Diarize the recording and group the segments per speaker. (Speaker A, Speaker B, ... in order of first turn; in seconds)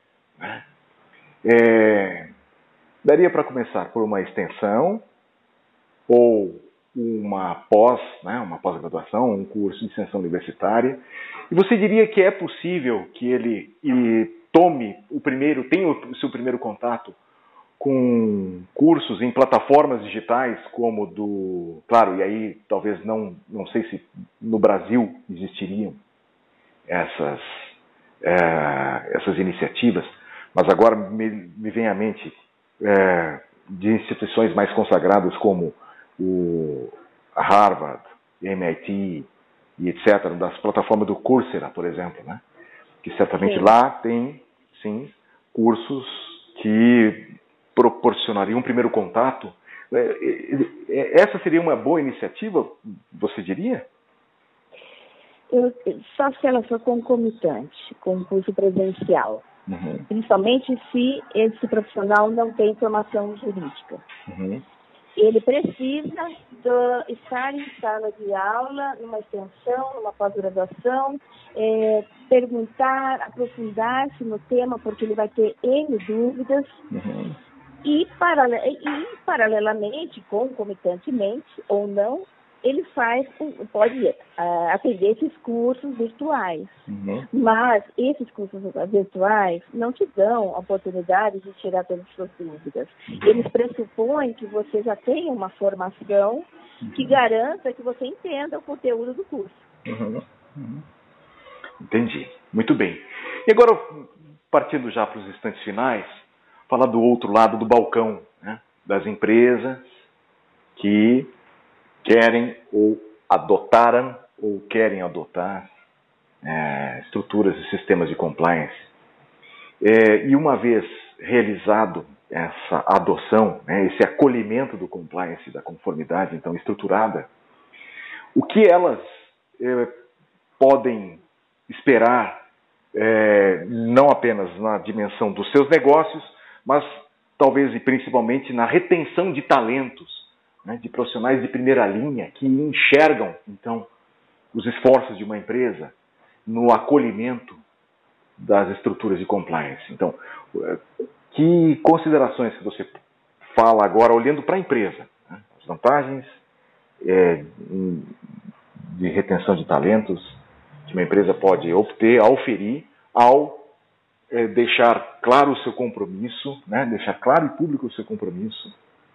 Speaker A: 0.4-0.7, 1.4-2.3, 3.0-5.0, 6.1-17.2, 17.8-26.0, 26.9-42.4, 43.0-53.9, 59.7-60.1, 64.3-64.6, 76.9-77.4, 86.9-87.3, 93.1-93.4, 96.8-97.2, 99.8-100.8, 101.8-110.0, 110.7-111.3, 112.0-115.7, 116.4-118.9, 119.8-127.3, 128.3-129.0, 129.6-129.9, 130.6-143.9, 144.5-145.9, 146.5-147.6, 148.4-156.4, 157.0-158.1, 158.8-163.7, 164.3-168.7
Speaker B: 43.4-43.7, 55.5-59.5, 60.1-64.0, 65.2-76.8, 77.8-99.7